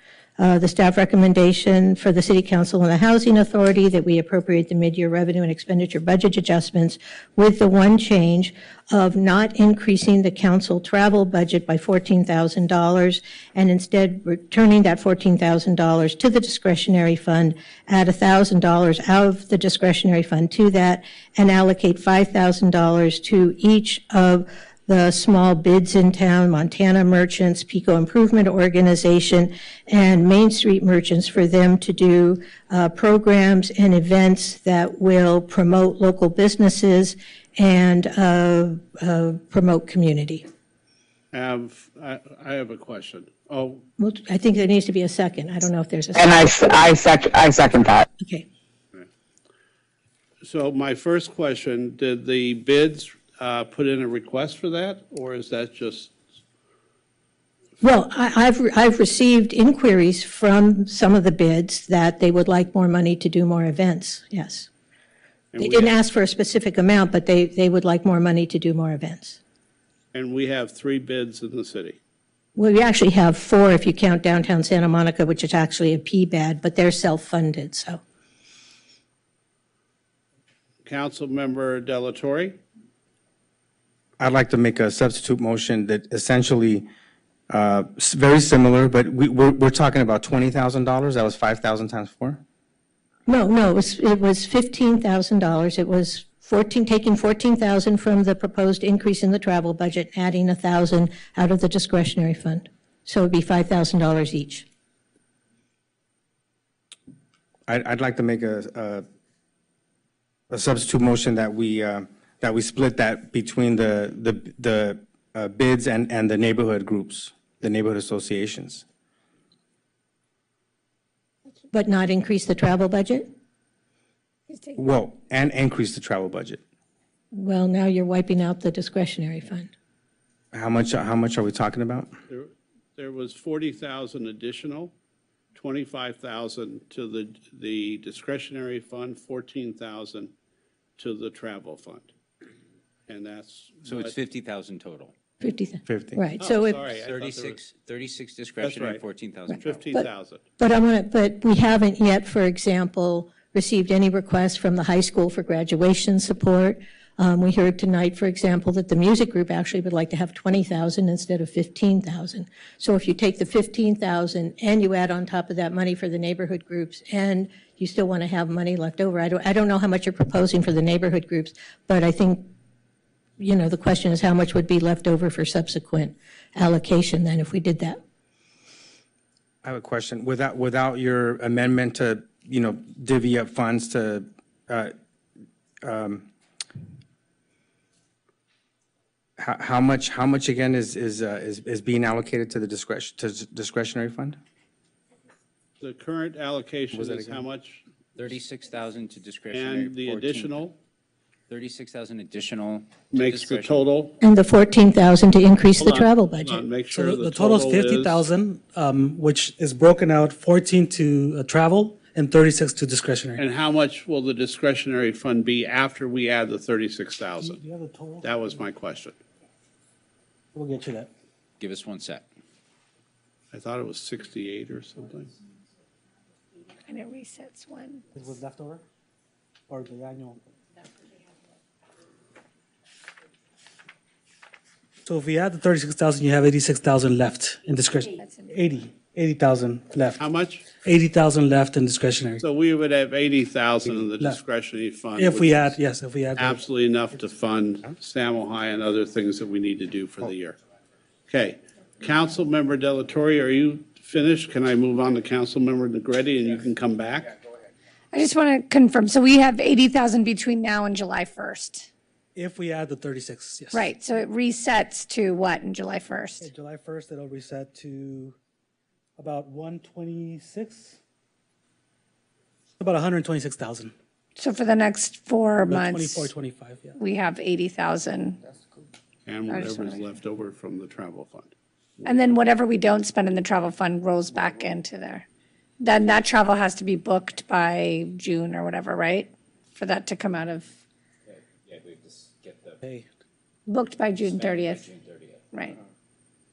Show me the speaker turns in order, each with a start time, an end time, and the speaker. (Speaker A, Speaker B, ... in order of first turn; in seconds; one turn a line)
Speaker A: 0.4-40.4
Speaker B: 41.3-43.8
Speaker A: 44.0-46.3
Speaker C: 46.1-48.1
Speaker B: 50.4-56.1
Speaker A: 57.8-64.7
Speaker B: 65.5-65.9
Speaker A: 65.6-69.4
Speaker B: 70.1-72.0
Speaker A: 72.5-78.0
Speaker B: 80.8-82.6
Speaker D: 84.2-86.8
Speaker D: 87.5-92.4
Speaker A: 93.3-104.7
Speaker D: 107.7-109.0
Speaker D: 110.5-118.8
Speaker A: 121.7-123.3
Speaker E: 124.5-124.8
Speaker D: 124.8-126.6
Speaker A: 127.3-129.7
Speaker D: 130.5-132.1
Speaker B: 132.3-134.9
Speaker B: 135.5-140.3
Speaker B: 141.0-142.1
Speaker B: 143.1-144.1
Speaker F: 143.8-145.1
Speaker A: 145.4-146.8
Speaker D: 145.8-146.2
Speaker B: 146.4-147.6
Speaker F: 147.0-149.9
Speaker B: 148.6-149.0
Speaker B: 149.6-150.4
Speaker A: 150.6-172.5
Speaker A: 173.4-178.0
Speaker D: 179.6-184.9
Speaker D: 185.8-186.3
Speaker D: 189.4-194.4
Speaker B: 195.8-197.8
Speaker D: 196.9-197.4
Speaker F: 198.2-200.6
Speaker B: 199.5-200.7
Speaker F: 201.5-203.8
Speaker B: 203.1-204.2
Speaker A: 204.2-206.6
Speaker B: 205.8-208.2
Speaker G: 206.9-213.4
Speaker B: 213.3-217.6
Speaker G: 217.4-218.4
Speaker B: 218.2-219.2
Speaker G: 220.5-221.1
Speaker F: 221.6-222.2
Speaker B: 223.5-225.3
Speaker E: 226.9-228.0
Speaker G: 228.1-228.8
Speaker G: 229.7-230.4
Speaker G: 235.0-242.4
Speaker E: 238.1-238.8
Speaker B: 240.2-240.7
Speaker B: 242.4-245.8
Speaker G: 244.1-244.4
Speaker G: 245.2-246.6
Speaker B: 246.3-250.6
Speaker B: 251.3-257.3
Speaker E: 258.1-261.9
Speaker G: 262.3-263.9
Speaker E: 263.7-266.5
Speaker G: 266.4-268.3
Speaker G: 269.2-271.0
Speaker G: 272.8-273.9
Speaker E: 274.4-276.3
Speaker G: 275.7-276.9
Speaker E: 276.9-278.4
Speaker B: 279.2-281.5
Speaker E: 279.5-280.0
Speaker E: 282.0-285.2
Speaker E: 285.8-290.7
Speaker F: 291.3-292.8
Speaker E: 293.7-294.9
Speaker F: 294.1-295.4
Speaker E: 295.5-295.8